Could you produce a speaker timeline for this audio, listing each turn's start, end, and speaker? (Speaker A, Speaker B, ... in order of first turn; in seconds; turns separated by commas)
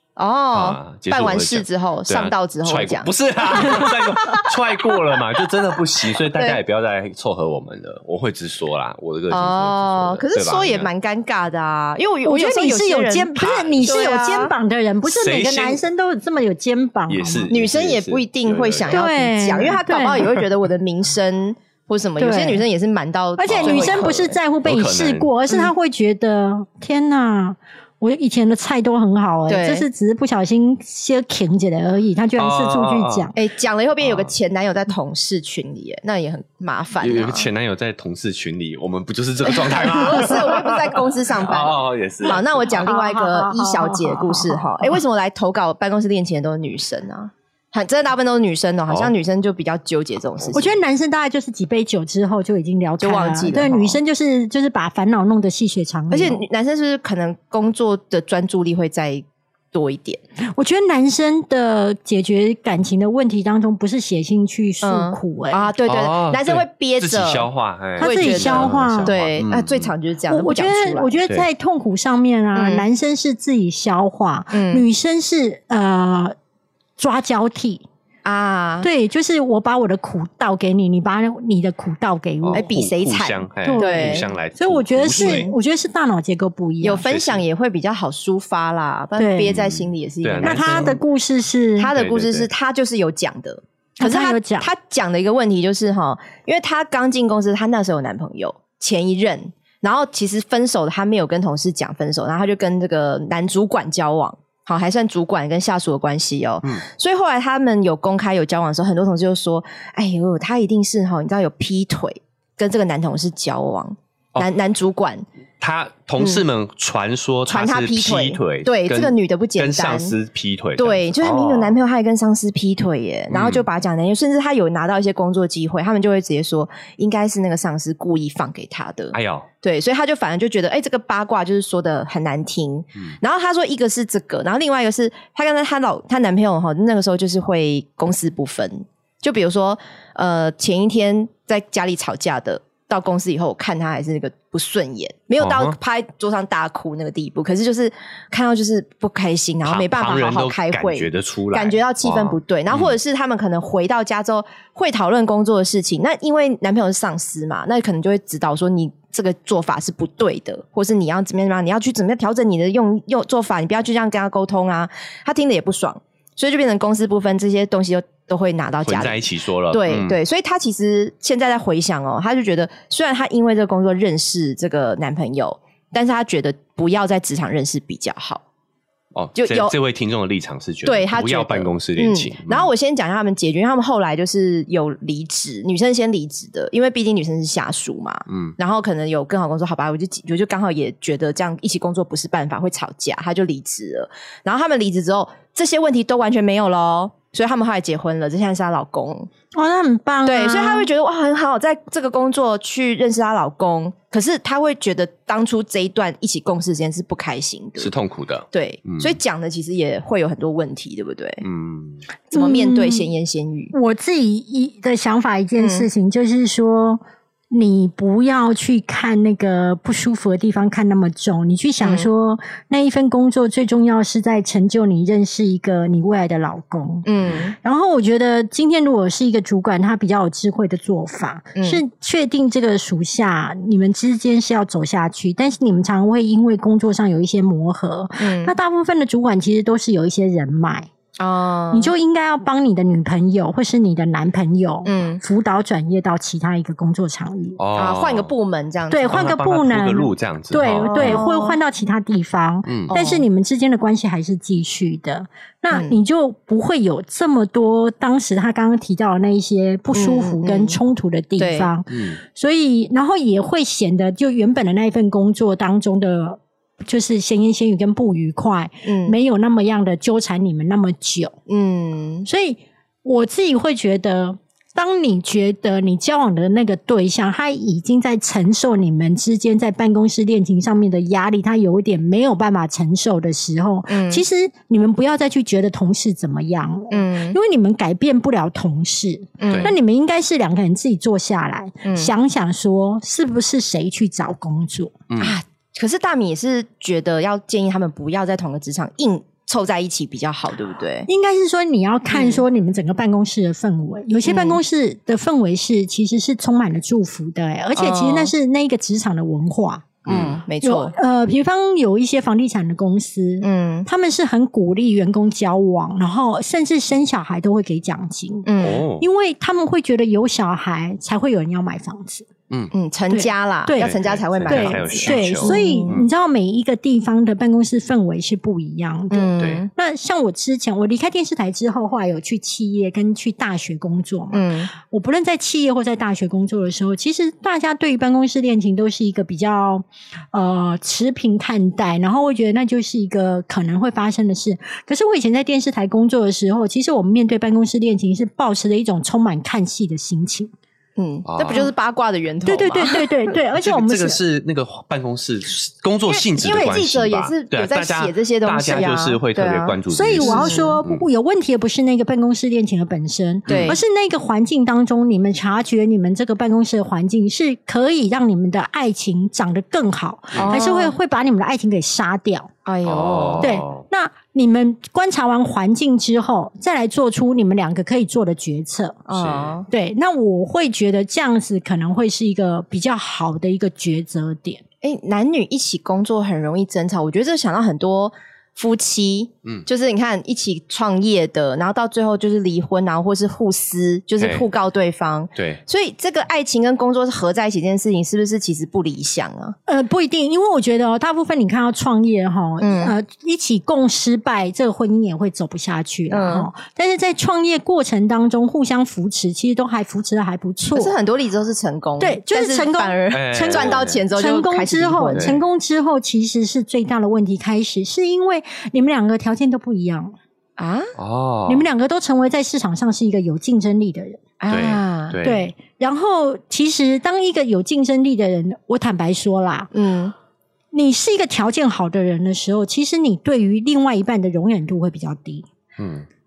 Speaker A: 0.2-4.5, Speaker B: 0.5-10.9, Speaker A: 6.2-6.6, Speaker A: 9.3-14.5, Speaker C: 12.2-17.5, Speaker B: 13.3-13.8, Speaker B: 15.0-15.8, Speaker B: 17.1-19.8, Speaker A: 17.5-24.3, Speaker C: 18.9-20.2, Speaker C: 22.2-22.6, Speaker C: 23.4-33.3, Speaker B: 23.5-25.3, Speaker A: 29.5-29.9, Speaker B: 32.4-33.3, Speaker A: 33.3-37.5, Speaker B: 34.0-34.3, Speaker B: 37.0-42.9, Speaker A: 39.4-50.7, Speaker C: 42.8-45.0, Speaker C: 50.5-56.4, Speaker A: 53.0-54.0, Speaker A: 56.1-60.2, Speaker C: 60.5-65.7, Speaker A: 64.8-71.2, Speaker B: 65.8-69.9, Speaker C: 68.0-69.1, Speaker C: 70.3-76.3, Speaker A: 72.5-72.9, Speaker A: 74.5-74.8, Speaker C: 77.0-77.8, Speaker A: 78.2-78.9, Speaker C: 78.8-82.7, Speaker B: 82.4-85.5, Speaker A: 82.5-84.2, Speaker C: 83.6-87.0, Speaker A: 85.2-85.5, Speaker A: 86.8-91.0, Speaker B: 87.0-87.4, Speaker C: 89.2-89.5, Speaker B: 89.5-91.0, Speaker C: 90.4-91.9, Speaker A: 91.8-115.2, Speaker B: 91.9-92.5, Speaker C: 94.0-94.7, Speaker B: 115.6-121.8, Speaker A: 116.2-116.4, Speaker A: 117.5-120.2, Speaker A: 120.8-178.4, Speaker B: 123.3-123.6, Speaker B: 129.1-129.5, Speaker B: 145.4-145.8, Speaker B: 149.6-152.9, Speaker B: 168.8-170.2, Speaker B: 179.1-182.7, Speaker A: 179.3-179.7, Speaker A: 180.8-199.3, Speaker B: 188.3-188.5, Speaker C: 199.5-200.9, Speaker A: 200.2-207.9, Speaker B: 207.8-209.1, Speaker A: 208.5-211.4, Speaker B: 211.4-212.0, Speaker A: 212.3-213.7, Speaker C: 212.3-213.0, Speaker C: 213.7-227.1, Speaker A: 215.6-215.9, Speaker A: 221.8-222.1, Speaker A: 227.1-227.5, Speaker C: 227.6-240.9, Speaker A: 231.6-231.8, Speaker A: 238.2-238.5, Speaker A: 241.2-241.9, Speaker C: 241.7-247.6, Speaker A: 244.8-245.2, Speaker B: 247.6-248.3, Speaker A: 247.7-249.3, Speaker C: 248.9-271.4, Speaker B: 249.1-251.2, Speaker A: 250.8-251.6, Speaker B: 252.7-252.9, Speaker A: 252.9-253.2, Speaker A: 255.7-255.9, Speaker A: 259.9-260.8, Speaker A: 261.4-261.7, Speaker B: 261.9-262.2, Speaker A: 268.8-269.1, Speaker A: 271.5-272.3, Speaker C: 272.2-294.9, Speaker A: 283.9-284.2, Speaker A: 286.9-287.4, Speaker A: 289.4-289.7, Speaker B: 289.5-289.7, Speaker A: 291.8-292.1, Speaker B: 295.1-295.4, Speaker A: 295.2-301.1, Speaker C: 301.1-309.9, Speaker A: 302.1-302.4, Speaker A: 304.2-304.6, Speaker A: 307.8-308.3, Speaker B: 310.1-310.4, Speaker A: 310.1-310.9, Speaker C: 310.6-322.3, Speaker A: 313.4-313.9, Speaker A: 318.4-318.8, Speaker B: 318.6-319.1, Speaker A: 322.7-325.9, Speaker C: 323.1-323.9, Speaker B: 323.8-326.1, Speaker C: 324.5-350.5, Speaker A: 329.1-329.7, Speaker B: 329.4-329.6, Speaker A: 334.3-334.7, Speaker A: 351.0-353.1, Speaker B: 351.3-351.7, Speaker C: 352.4-354.2, Speaker B: 353.6-361.0, Speaker A: 356.1-360.8, Speaker C: 359.9-372.5, Speaker B: 363.5-363.8, Speaker A: 363.5-363.8, Speaker B: 370.3-370.6, Speaker A: 370.4-370.9, Speaker A: 372.6-373.5, Speaker B: 372.8-373.8, Speaker C: 373.4-379.0, Speaker A: 379.1-379.7, Speaker B: 379.1-379.6, Speaker C: 379.7-384.6, Speaker A: 384.8-399.5, Speaker B: 394.2-394.5, Speaker B: 395.4-395.6, Speaker C: 399.7-410.9, Speaker A: 402.6-402.9, Speaker A: 406.1-406.5, Speaker A: 410.7-415.4, Speaker C: 412.0-420.1, Speaker B: 413.1-414.0, Speaker A: 420.6-420.9, Speaker B: 421.0-421.6, Speaker C: 421.5-424.2, Speaker A: 424.4-425.2, Speaker B: 424.5-425.5, Speaker C: 425.2-429.7, Speaker A: 429.7-430.1, Speaker C: 430.7-435.5, Speaker B: 435.8-436.1